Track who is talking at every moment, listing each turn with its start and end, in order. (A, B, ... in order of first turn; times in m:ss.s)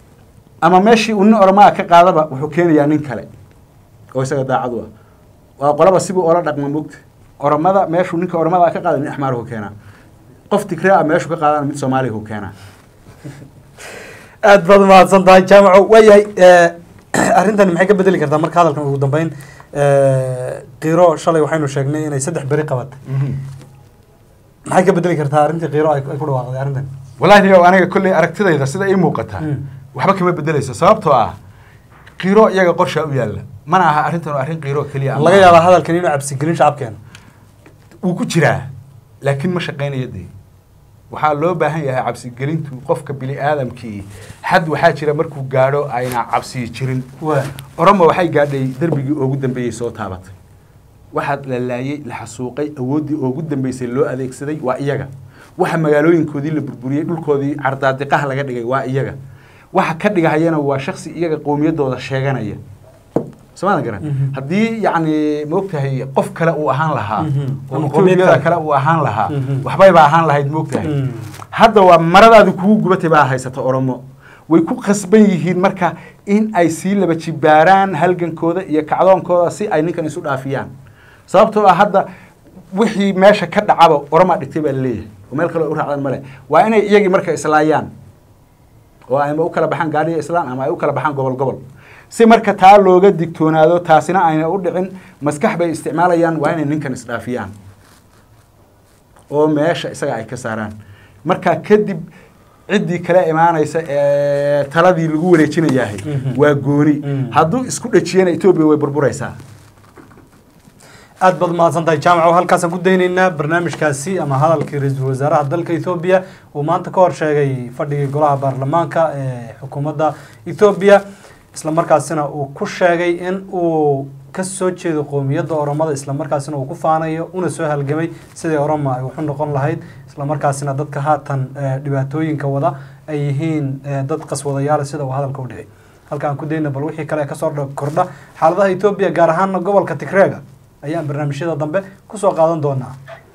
0:00.6-0:03.3 A
0:04.1-0:04.9 A
0:05.6-0:09.7 A
0:10.5-0:12.5 A
0:14.4-0:23.0 B
0:23.1-0:23.4 A
0:24.7-0:26.9 B
0:27.2-0:31.4 A
0:32.2-0:35.6 A
0:35.1-0:37.0 B
0:38.0-0:38.7 A
0:39.2-0:40.3 A
0:41.1-0:47.1 A
0:47.2-0:47.5 B
0:47.8-0:50.3 A
0:51.1-0:59.2 A
0:59.7-1:02.6 A
1:03.6-1:10.9 A
1:04.0-1:04.3 B
1:07.2-1:08.4 B
1:09.3-1:09.7 B
1:10.8-1:11.3 B
1:11.5-1:20.7 A
1:21.3-1:22.1 A
1:22.7-1:27.9 A
1:29.1-1:37.5 A
1:39.3-1:42.0 A
1:42.7-1:49.4 A
1:46.1-1:46.4 B
1:47.1-1:47.4 B
1:51.2-2:01.0 B
2:01.5-2:23.0 B